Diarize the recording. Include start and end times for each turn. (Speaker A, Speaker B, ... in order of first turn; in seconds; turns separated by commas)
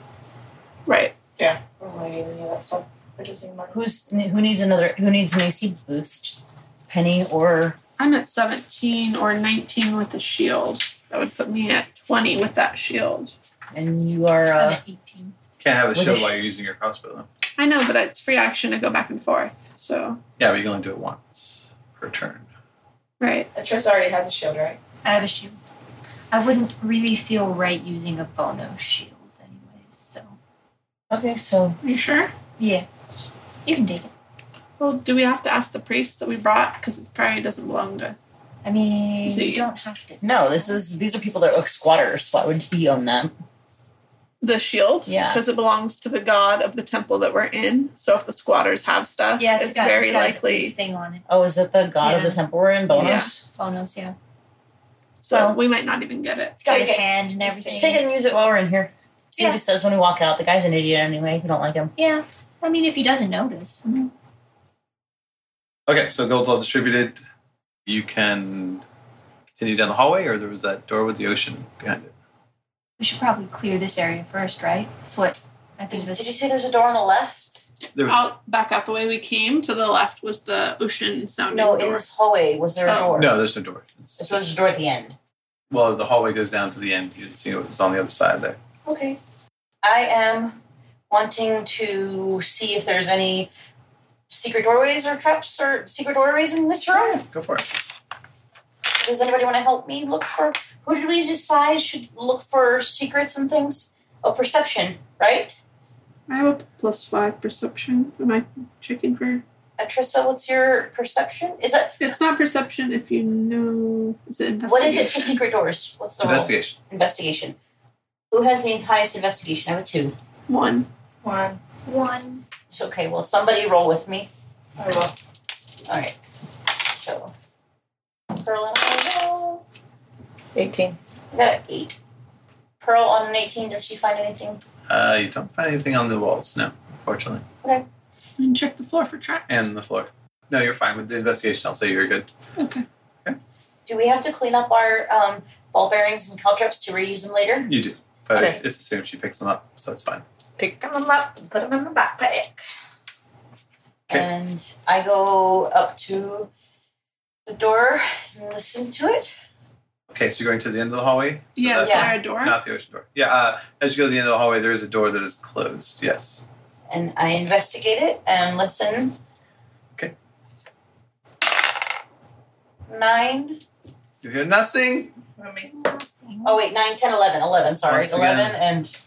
Speaker A: 0.8-1.2, Speaker B: 1.4-3.8, Speaker C: 3.7-7.8, Speaker A: 8.0-13.3, Speaker C: 13.7-14.8, Speaker D: 14.6-15.3, Speaker E: 15.6-17.3, Speaker C: 15.9-16.3, Speaker A: 17.6-20.2, Speaker E: 20.4-22.4, Speaker A: 23.2-23.5, Speaker B: 23.5-24.8, Speaker D: 25.0-25.6, Speaker D: 26.3-30.4, Speaker C: 31.1-31.8, Speaker A: 31.8-32.3, Speaker D: 32.6-32.9, Speaker D: 33.6-34.1, Speaker A: 34.8-38.2, Speaker D: 38.6-40.8, Speaker A: 39.2-39.7, Speaker C: 40.2-43.4, Speaker A: 44.4-50.7, Speaker C: 45.0-45.4, Speaker D: 49.4-51.2, Speaker C: 51.3-53.4, Speaker D: 52.0-52.4, Speaker A: 52.9-53.3, Speaker D: 52.9-54.1, Speaker C: 55.2-55.6, Speaker A: 55.2-56.6, Speaker D: 56.6-58.0, Speaker B: 56.6-57.9, Speaker C: 57.7-61.9, Speaker D: 59.3-59.6, Speaker D: 62.0-64.1, Speaker E: 65.9-67.2, Speaker E: 67.8-68.8, Speaker E: 69.6-72.1, Speaker D: 73.0-76.4, Speaker C: 75.9-77.6, Speaker E: 77.9-78.3, Speaker A: 78.0-82.0, Speaker C: 81.5-83.5, Speaker A: 82.8-83.2, Speaker E: 83.1-84.5, Speaker C: 84.2-85.2, Speaker E: 85.7-88.6, Speaker C: 88.8-89.2, Speaker C: 89.8-90.6, Speaker C: 91.1-93.5, Speaker C: 94.3-97.2, Speaker E: 97.1-97.6, Speaker C: 98.9-105.6, Speaker A: 106.3-109.4, Speaker C: 109.8-112.0, Speaker A: 112.0-115.4, Speaker C: 114.7-117.5, Speaker E: 116.2-116.7, Speaker C: 118.3-120.2, Speaker A: 120.5-120.9, Speaker B: 121.2-121.6, Speaker D: 121.8-122.4, Speaker C: 122.7-124.3, Speaker B: 124.8-125.1, Speaker C: 125.9-126.2, Speaker C: 126.7-127.3, Speaker C: 128.3-129.6, Speaker B: 130.5-131.0, Speaker C: 131.3-131.9, Speaker C: 132.8-134.6, Speaker E: 134.9-137.4, Speaker A: 138.4-139.7, Speaker E: 139.5-142.3, Speaker A: 142.6-142.8, Speaker C: 143.9-147.7, Speaker E: 147.7-150.2, Speaker B: 150.6-152.6, Speaker C: 154.1-156.5, Speaker C: 157.4-159.3, Speaker E: 160.1-166.4, Speaker A: 161.6-162.6, Speaker C: 161.8-162.1, Speaker C: 166.9-169.2, Speaker C: 172.9-173.6, Speaker E: 174.2-175.1, Speaker B: 175.4-175.7, Speaker D: 175.6-176.6, Speaker C: 176.4-178.9, Speaker E: 177.8-178.6